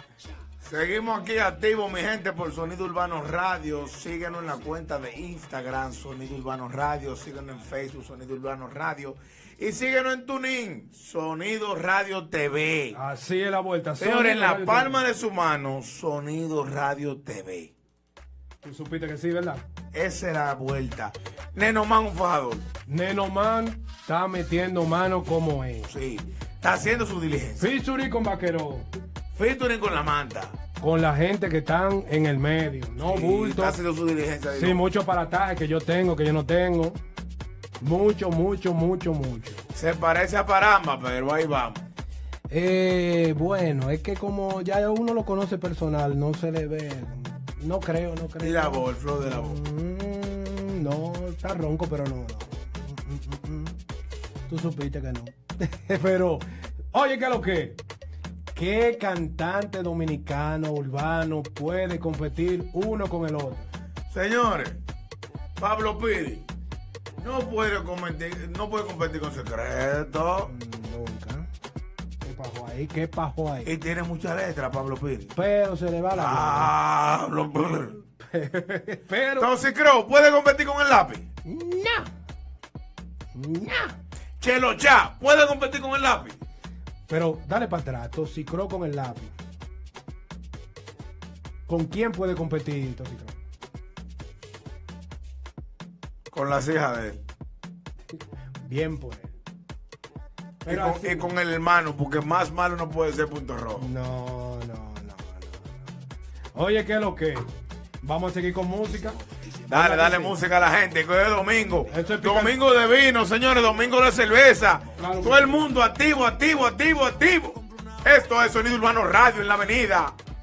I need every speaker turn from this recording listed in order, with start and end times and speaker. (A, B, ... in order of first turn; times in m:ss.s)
0:00.6-0:13.0 A
0:12.9-0:15.0 B
0:14.0-0:17.7 A
0:18.6-0:19.6 B
0:19.9-0:22.7 A
0:22.8-0:25.9 B
0:25.8-0:27.7 A
0:27.6-0:28.9 B
0:29.3-0:30.6 A
0:30.8-0:33.8 B
0:33.0-0:34.8 A
0:34.5-0:37.0 B
0:37.8-0:39.6 B
0:39.7-0:41.9 A
0:42.5-0:53.8 B
0:48.4-0:49.6 A
0:54.5-0:57.8 B
0:58.5-1:03.7 B
1:04.1-1:04.8 A
1:05.6-1:06.4 A
1:07.2-1:10.5 A
1:10.5-1:11.5 B
1:12.2-1:13.8 B
1:13.6-1:15.3 A
1:15.3-1:16.7 B
1:16.1-1:18.0 A
1:18.2-1:19.5 B
1:19.4-1:21.2 A
1:21.4-1:22.1 B
1:23.3-1:24.0 B
1:24.4-1:26.4 A
1:27.1-1:29.4 B
1:31.7-1:33.4 B
1:36.3-1:37.2 A
1:38.6-1:39.3 B
1:40.6-1:41.3 B
1:40.7-1:43.9 A
1:43.8-1:45.9 B
1:46.5-1:47.4 B
1:48.0-1:50.4 B
1:49.7-2:00.2 A
1:51.9-1:52.6 B
1:55.0-1:55.7 B